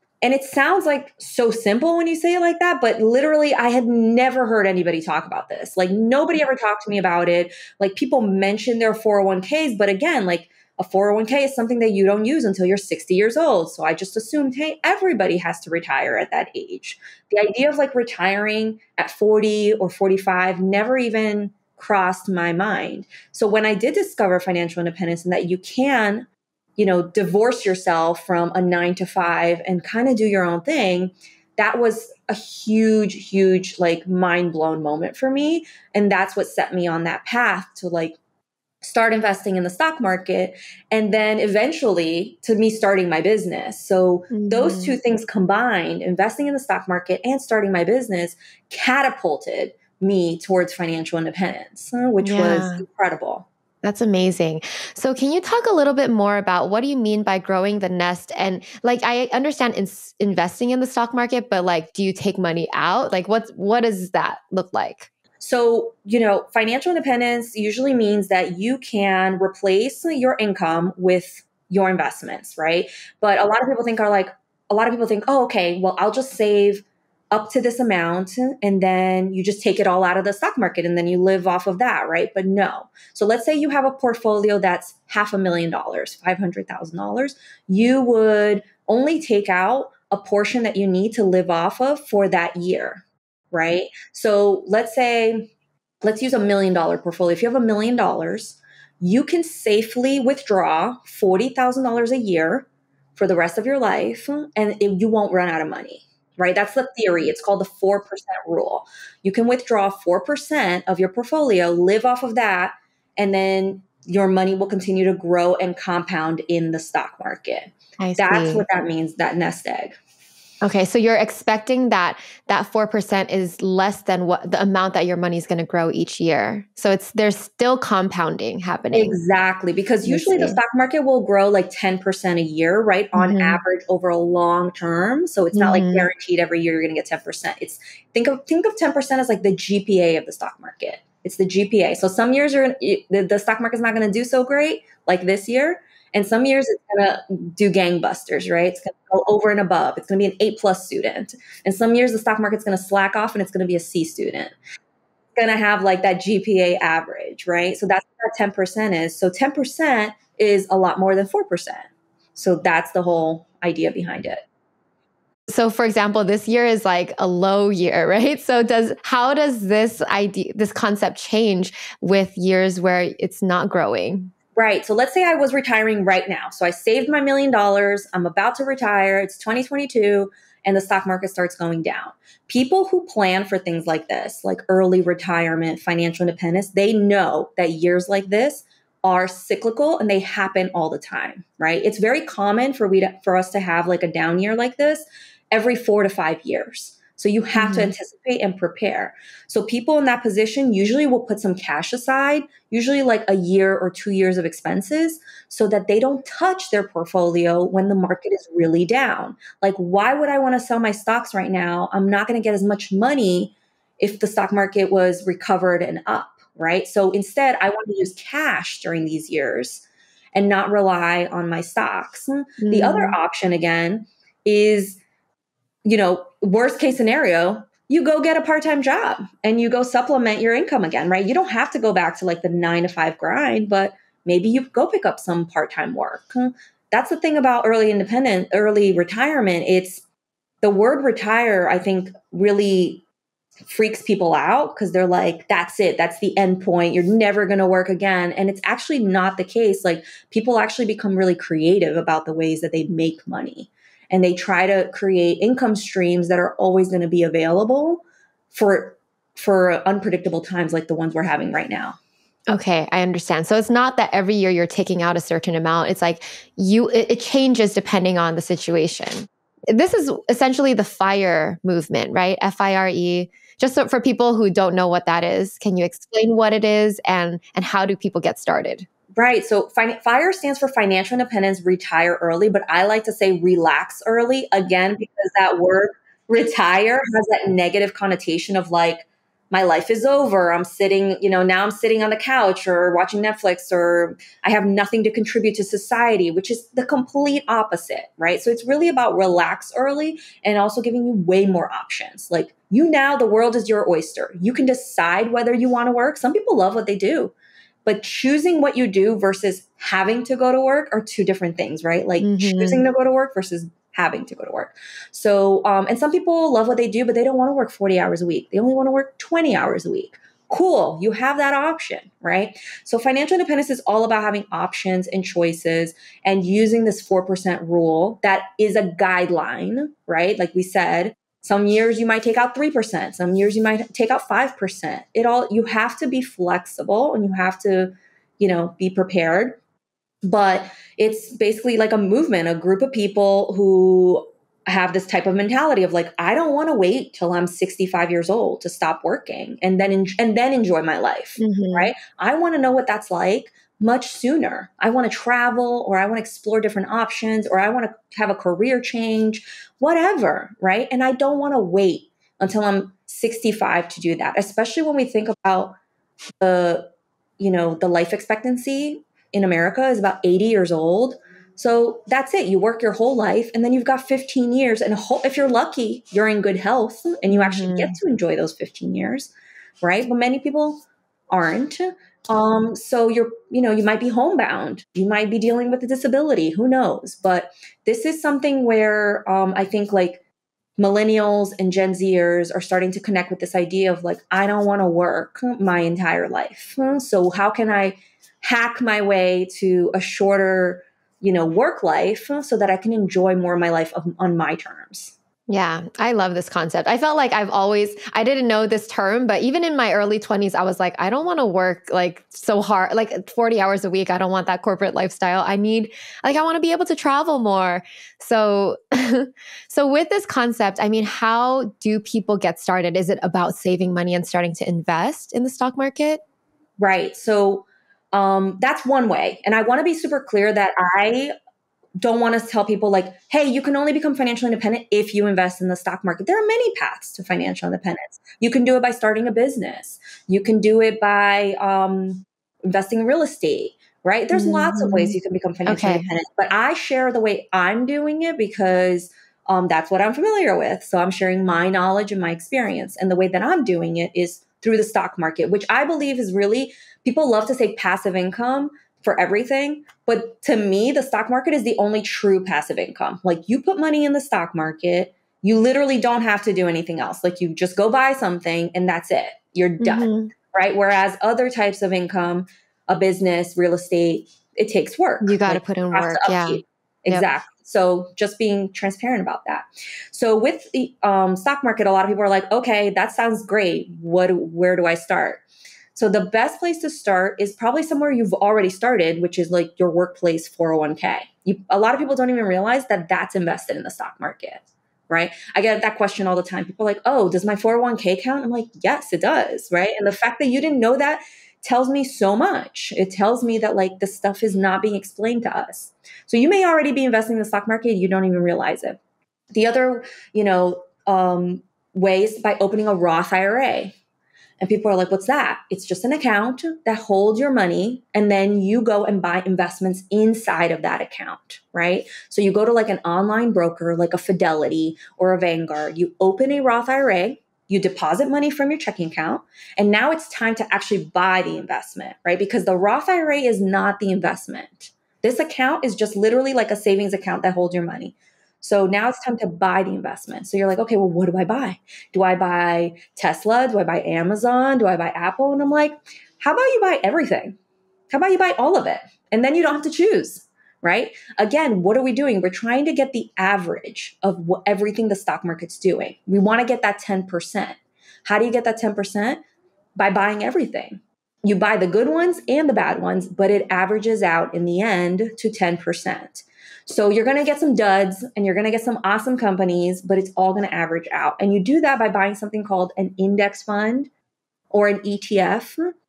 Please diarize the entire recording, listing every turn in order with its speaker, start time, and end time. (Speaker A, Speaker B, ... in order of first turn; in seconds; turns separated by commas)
Speaker A: 0.2-38.2, Speaker A: 38.8-53.5, Speaker B: 44.3-45.0, Speaker B: 52.2-52.8, Speaker B: 53.8-65.1, Speaker A: 65.4-95.5, Speaker A: 96.0-120.0, Speaker B: 118.0-118.6, Speaker B: 120.6-129.2, Speaker A: 128.9-154.5, Speaker B: 130.0-130.6, Speaker B: 133.1-133.6, Speaker B: 135.5-136.1, Speaker A: 155.4-164.4, Speaker B: 165.5-174.3, Speaker A: 174.6-225.0, Speaker B: 197.6-197.9, Speaker B: 222.6-223.2, Speaker A: 225.8-240.0, Speaker A: 240.6-243.0, Speaker A: 243.7-262.0, Speaker B: 262.5-278.9, Speaker A: 279.1-307.3, Speaker A: 307.9-339.6, Speaker B: 312.2-312.8, Speaker A: 340.2-365.8, Speaker B: 351.4-351.9, Speaker A: 366.4-366.9, Speaker A: 367.4-390.2, Speaker B: 377.3-378.0, Speaker A: 390.8-405.1, Speaker B: 405.5-426.2, Speaker A: 426.8-431.3, Speaker A: 432.0-485.4, Speaker B: 444.3-445.1, Speaker B: 445.6-446.0, Speaker B: 469.8-470.3, Speaker B: 475.2-477.2, Speaker A: 485.9-509.0, Speaker A: 509.5-514.0, Speaker A: 514.6-547.5, Speaker A: 548.1-559.4, Speaker A: 560.0-574.1, Speaker A: 574.7-575.8